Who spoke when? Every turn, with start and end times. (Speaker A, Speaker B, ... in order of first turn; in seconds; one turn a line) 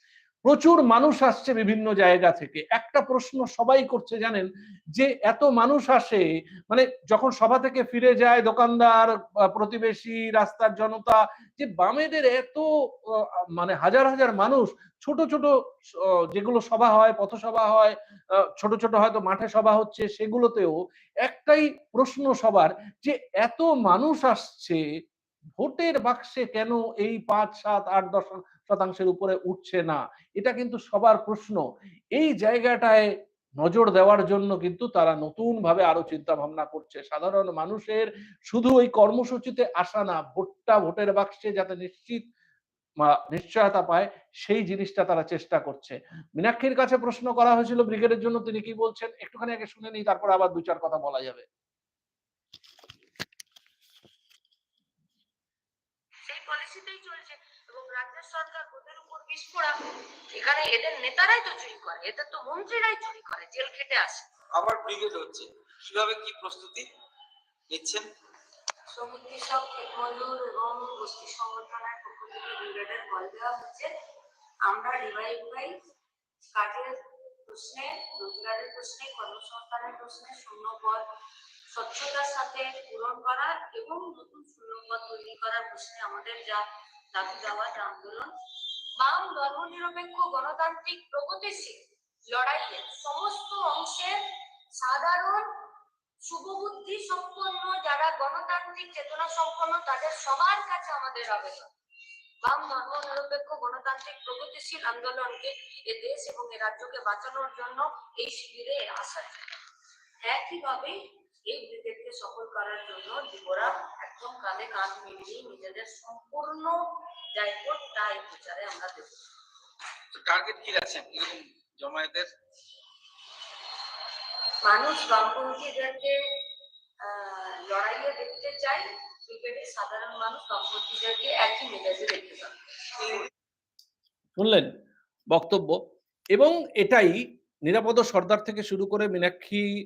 Speaker A: 0.5-17.9
Speaker A: 18.6-24.8
Speaker A: 25.6-31.6
Speaker A: 32.1-33.1
Speaker A: 33.6-42.2
Speaker A: 43.0-51.4
Speaker B: 56.2-64.3
Speaker C: 64.5-66.9
Speaker C: 67.7-68.1
Speaker B: 68.9-73.9
Speaker B: 74.6-75.8
Speaker B: 76.5-81.0
Speaker B: 81.7-88.3
Speaker B: 89.0-95.5
Speaker B: 96.2-101.7
Speaker B: 102.4-109.5
Speaker B: 110.2-119.2
Speaker C: 120.1-122.3
Speaker B: 124.6-126.2
Speaker B: 127.0-133.2
Speaker A: 134.4-134.7
Speaker A: 135.3-135.8
Speaker A: 136.3-139.7